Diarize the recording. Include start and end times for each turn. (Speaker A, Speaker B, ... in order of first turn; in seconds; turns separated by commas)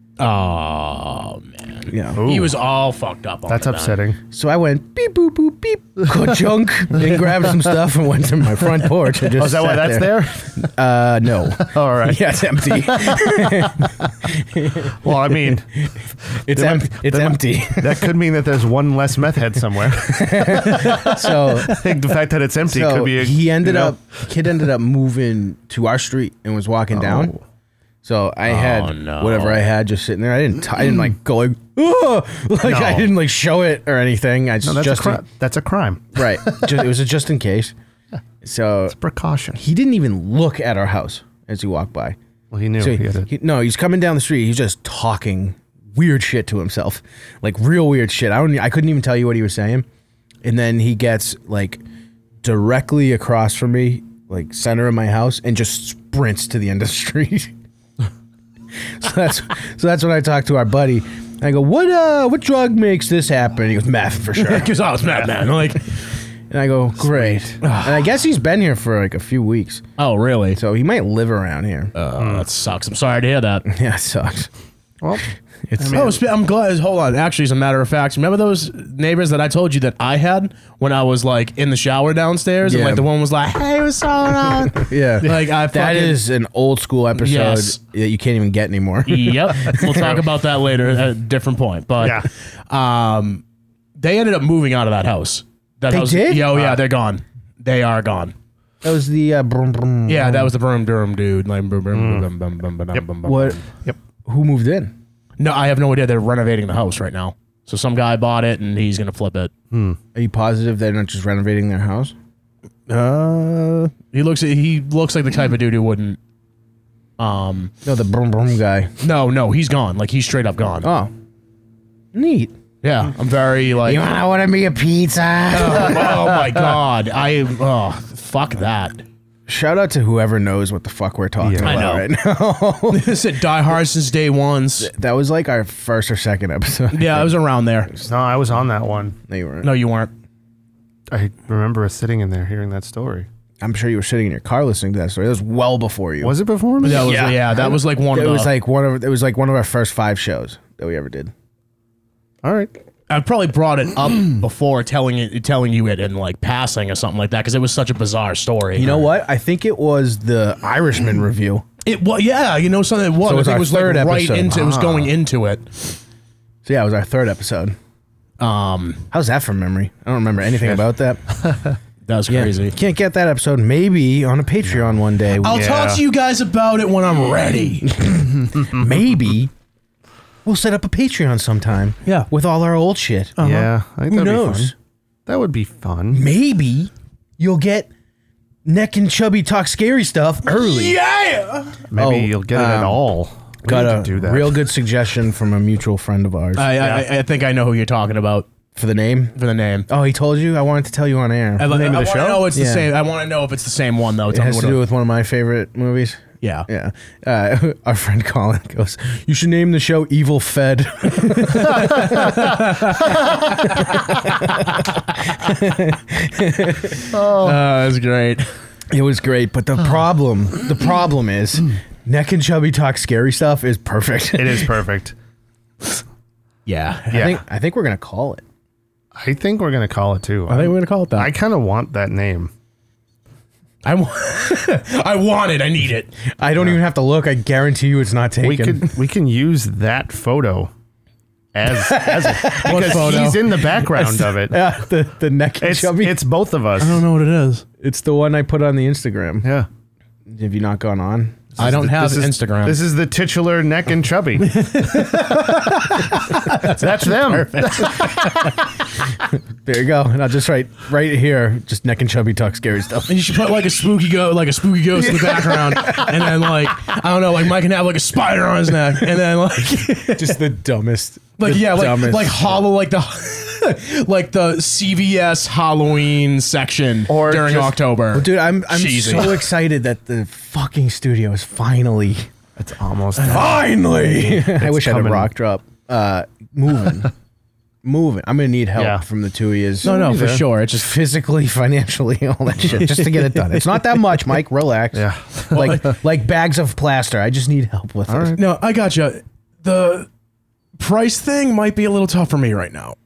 Speaker A: 0.2-4.0, Speaker B: 1.9-2.2, Speaker C: 2.1-2.6, Speaker C: 3.5-4.2, Speaker B: 4.3-18.1, Speaker C: 6.9-7.5, Speaker C: 9.1-10.7, Speaker C: 11.5-14.1, Speaker C: 14.9-15.7, Speaker C: 16.3-24.0, Speaker B: 20.1-21.8, Speaker A: 20.7-21.2, Speaker B: 22.7-27.3, Speaker C: 26.9-27.4, Speaker B: 28.0-35.2, Speaker A: 28.4-29.6, Speaker C: 32.6-33.1, Speaker C: 34.6-36.9, Speaker B: 36.1-37.7, Speaker B: 38.4-38.9, Speaker C: 38.9-39.6, Speaker B: 39.5-42.2, Speaker C: 42.5-43.3, Speaker B: 42.8-49.8, Speaker B: 50.4-51.8, Speaker B: 52.4-57.5, Speaker B: 59.0-64.7, Speaker A: 64.3-66.0, Speaker B: 66.5-69.8, Speaker C: 67.0-67.5, Speaker A: 67.6-68.0, Speaker A: 70.0-70.6, Speaker B: 70.5-71.9, Speaker A: 71.9-73.7, Speaker C: 72.2-72.5, Speaker B: 73.7-74.5, Speaker C: 75.0-75.3, Speaker B: 75.7-76.1, Speaker C: 75.8-76.2, Speaker A: 75.9-86.2, Speaker B: 82.6-83.0, Speaker B: 84.8-90.2, Speaker A: 87.1-87.8, Speaker A: 89.1-93.4, Speaker C: 89.9-90.2, Speaker C: 92.0-92.3, Speaker A: 94.0-98.3, Speaker B: 95.9-96.7, Speaker B: 98.8-100.5, Speaker A: 100.1-103.7, Speaker C: 101.9-102.3, Speaker B: 103.2-103.6, Speaker B: 104.2-104.9, Speaker A: 105.4-109.5, Speaker C: 109.7-110.0, Speaker B: 110.1-112.1, Speaker A: 112.9-116.2, Speaker A: 117.2-117.7, Speaker B: 117.8-118.9, Speaker A: 119.0-120.9, Speaker B: 120.8-121.1, Speaker B: 122.1-122.5, Speaker A: 122.8-124.0, Speaker B: 123.8-126.2, Speaker A: 125.5-129.0, Speaker C: 126.1-126.4, Speaker B: 129.5-133.1, Speaker C: 131.4-131.9, Speaker A: 131.6-132.1, Speaker A: 132.9-134.9, Speaker B: 134.8-137.3, Speaker A: 136.9-137.9, Speaker C: 138.0-139.2, Speaker B: 139.3-139.7, Speaker A: 139.6-140.1, Speaker C: 141.1-143.3, Speaker B: 143.6-151.3, Speaker C: 146.2-147.2, Speaker A: 146.8-148.5, Speaker C: 152.4-152.7, Speaker A: 153.1-159.0, Speaker B: 158.8-161.6, Speaker A: 161.8-166.0, Speaker B: 163.2-164.5, Speaker C: 164.4-165.1, Speaker B: 166.6-167.8, Speaker A: 168.4-169.1, Speaker B: 169.1-171.2, Speaker C: 170.5-171.8, Speaker A: 172.1-172.7, Speaker B: 172.3-175.7, Speaker C: 174.7-176.0, Speaker A: 175.4-178.1, Speaker B: 178.0-179.5, Speaker B: 180.4-183.4, Speaker A: 183.4-183.7, Speaker C: 183.4-184.7, Speaker B: 184.1-184.7, Speaker C: 185.2-186.3, Speaker B: 186.1-187.9, Speaker B: 188.6-191.0, Speaker A: 190.4-191.8, Speaker C: 191.9-194.7, Speaker B: 191.9-193.0, Speaker B: 193.6-196.7, Speaker A: 196.6-198.5, Speaker C: 196.8-197.0, Speaker B: 198.7-199.3, Speaker A: 199.3-199.9, Speaker B: 199.9-201.7, Speaker A: 201.6-204.8, Speaker C: 201.6-202.5, Speaker B: 202.5-202.9, Speaker B: 204.3-212.5, Speaker A: 206.4-206.7, Speaker A: 211.2-214.3, Speaker C: 211.6-212.5, Speaker B: 213.5-217.0, Speaker C: 217.1-217.6, Speaker A: 217.4-218.5, Speaker B: 218.9-224.8, Speaker C: 224.3-225.1, Speaker A: 226.7-227.3, Speaker C: 227.1-227.4, Speaker B: 227.1-228.4, Speaker C: 229.1-232.5, Speaker A: 230.5-231.3, Speaker A: 233.8-236.2, Speaker B: 236.3-238.9, Speaker C: 238.4-240.7, Speaker C: 241.5-244.7, Speaker A: 241.9-243.8, Speaker B: 242.3-243.0, Speaker B: 243.9-246.2, Speaker C: 245.6-247.0, Speaker A: 246.8-247.6, Speaker B: 247.8-249.5, Speaker C: 249.4-249.7, Speaker B: 250.2-251.6, Speaker C: 251.5-255.5, Speaker A: 251.6-252.8, Speaker A: 254.4-258.5, Speaker C: 256.5-258.5, Speaker B: 259.6-263.1, Speaker A: 263.1-270.4, Speaker C: 264.9-266.5, Speaker B: 270.1-272.6, Speaker A: 271.4-279.5, Speaker C: 277.1-277.8, Speaker B: 278.1-282.3, Speaker C: 282.6-283.6, Speaker B: 283.2-287.1, Speaker C: 284.2-285.3, Speaker B: 287.8-298.4, Speaker C: 288.7-289.0, Speaker A: 289.8-290.9, Speaker C: 289.9-290.4, Speaker A: 292.6-294.0, Speaker C: 294.9-295.9, Speaker A: 295.5-296.0, Speaker C: 298.1-298.4, Speaker A: 298.4-300.1, Speaker A: 300.8-302.9